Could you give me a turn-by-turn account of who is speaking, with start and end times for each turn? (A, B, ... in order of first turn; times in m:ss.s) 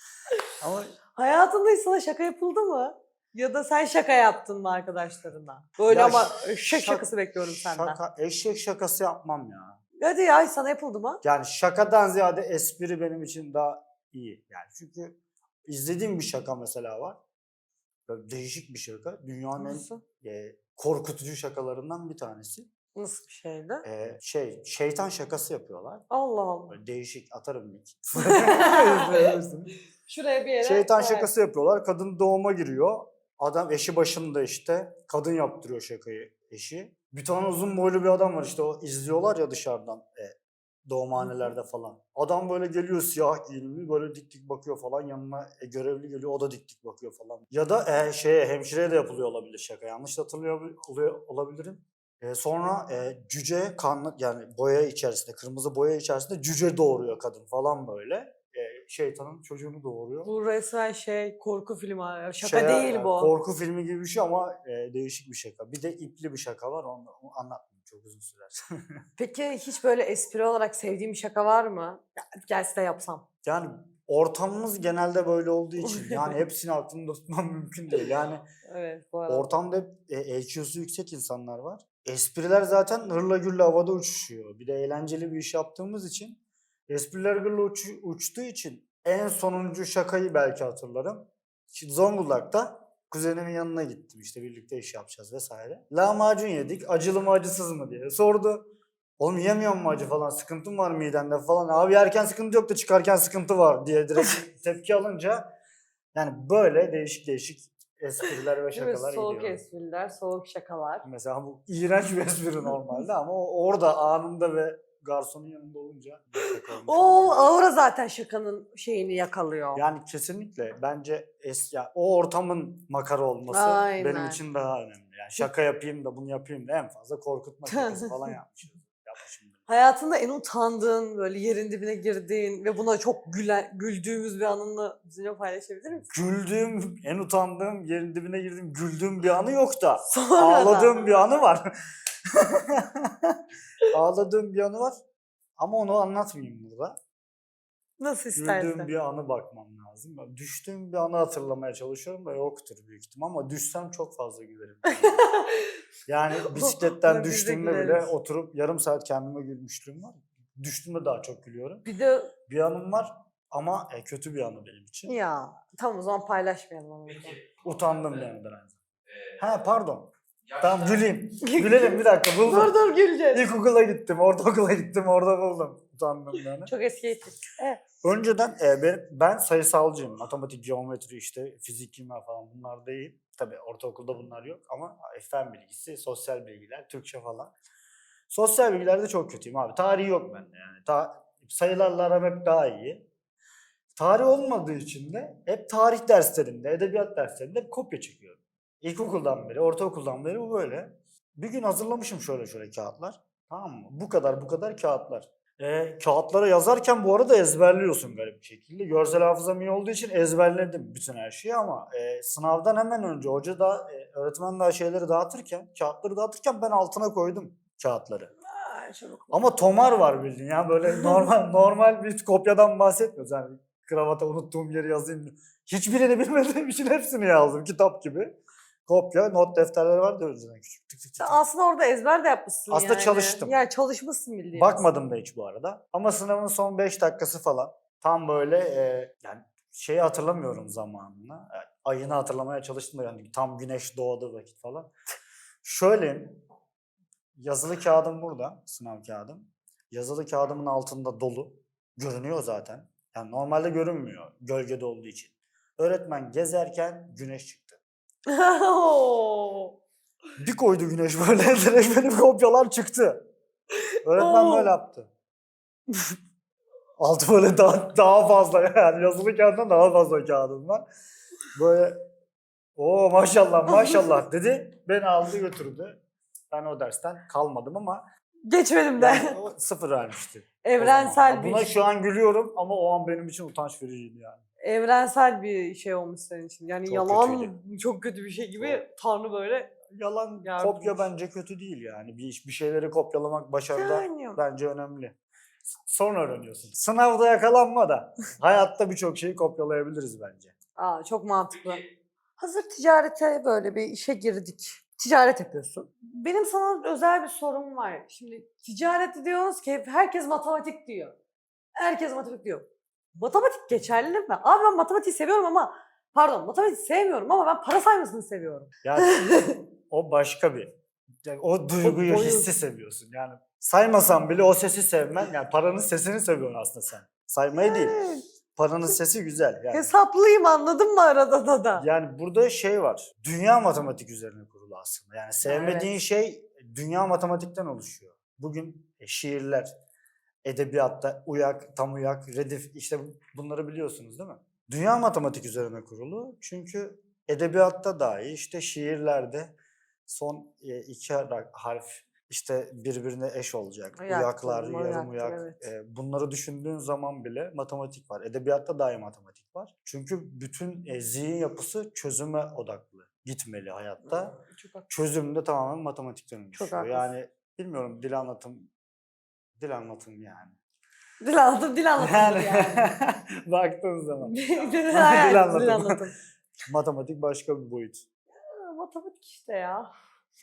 0:00.6-0:01.0 A
0:01.1-0:08.0 B
0:05.9-0:09.8 A
0:10.0-0:11.2 B
0:11.2-0:17.2 A
0:18.1-0:22.7 A
0:19.6-0:20.0 B
0:22.9-0:23.8 B
0:23.8-0:26.0 A
0:26.1-0:26.7 B
0:26.7-0:29.7 A
0:28.2-0:29.4 B
0:30.0-0:31.3 B
0:30.6-1:00.3 A
1:00.2-1:03.3 B
1:02.4-1:09.0 A
1:09.2-1:13.2 B
1:13.4-1:18.4 A
1:15.8-1:16.4 B
1:18.6-1:19.5 B
1:19.3-1:38.7 A
1:39.2-1:45.5 A
1:46.1-1:49.6 A
1:48.7-1:51.0 B
1:51.0-1:57.4 A
1:56.5-1:59.8 B
1:59.7-2:09.6 A
2:03.5-2:04.4 B
2:07.7-2:08.3 B
2:09.7-2:16.1 B
2:16.1-2:21.7 A
2:20.1-2:21.2 B
2:22.2-2:25.0 A
2:25.6-2:27.0 A
2:28.0-2:28.9 B
2:28.4-2:35.3 A
2:34.9-2:35.7 B
2:36.1-2:41.8 A
2:36.4-2:38.1 B
2:41.8-2:42.3 B
2:42.5-2:45.1 A
2:45.1-2:47.4 B
2:47.1-2:48.3 C
2:47.6-2:48.8 A
2:49.0-2:49.5 C
2:49.4-2:52.7 A
2:50.4-2:51.1 C
2:51.4-2:53.5 B
2:53.3-2:56.7 A
2:56.6-2:57.8 B
2:58.0-3:07.5 A
3:08.3-3:13.0 A
3:14.0-3:38.3 A
3:38.5-3:39.4 B
3:39.3-3:51.4 A
3:41.0-3:41.2 B
3:51.2-3:54.9 B
3:52.7-3:53.5 A
3:54.6-4:04.9 A
4:05.6-4:06.4 A
4:07.3-4:17.8 A
4:18.3-4:19.8 B
4:20.4-4:23.2 A
4:23.9-4:24.7 B
4:24.0-4:25.1 A
4:27.0-4:30.8 A
4:31.5-4:32.0 A
4:32.8-4:38.0 A
4:33.7-4:34.1 B
4:38.5-4:39.4 B
4:39.0-4:44.4 A
4:40.6-4:41.7 B
4:44.6-4:49.8 B
4:46.8-4:47.5 A
4:48.6-4:48.8 A
4:49.9-4:55.2 A
4:50.4-4:51.1 B
4:53.7-4:54.4 B
4:55.8-5:00.5 A
5:00.8-5:01.8 B
5:02.4-5:11.2 B
5:11.8-5:19.6 B
5:18.8-5:19.3 A
5:19.9-5:28.0 A
5:21.8-5:22.5 B
5:27.6-5:28.2 B
5:28.6-5:29.9 A
5:29.7-5:31.8 B
5:31.8-5:39.7 A
5:35.4-5:35.9 B
5:40.4-5:49.5 A
5:50.1-6:04.4 A
5:54.0-5:55.6 B
6:04.1-6:04.9 B
6:04.9-6:08.7 A
6:06.5-6:07.1 B
6:09.6-6:10.6 A
6:11.2-6:13.0 B
6:12.0-6:14.4 A
6:14.2-6:16.1 B
6:14.9-6:16.0 A
6:16.6-6:18.0 A
6:18.4-6:19.9 B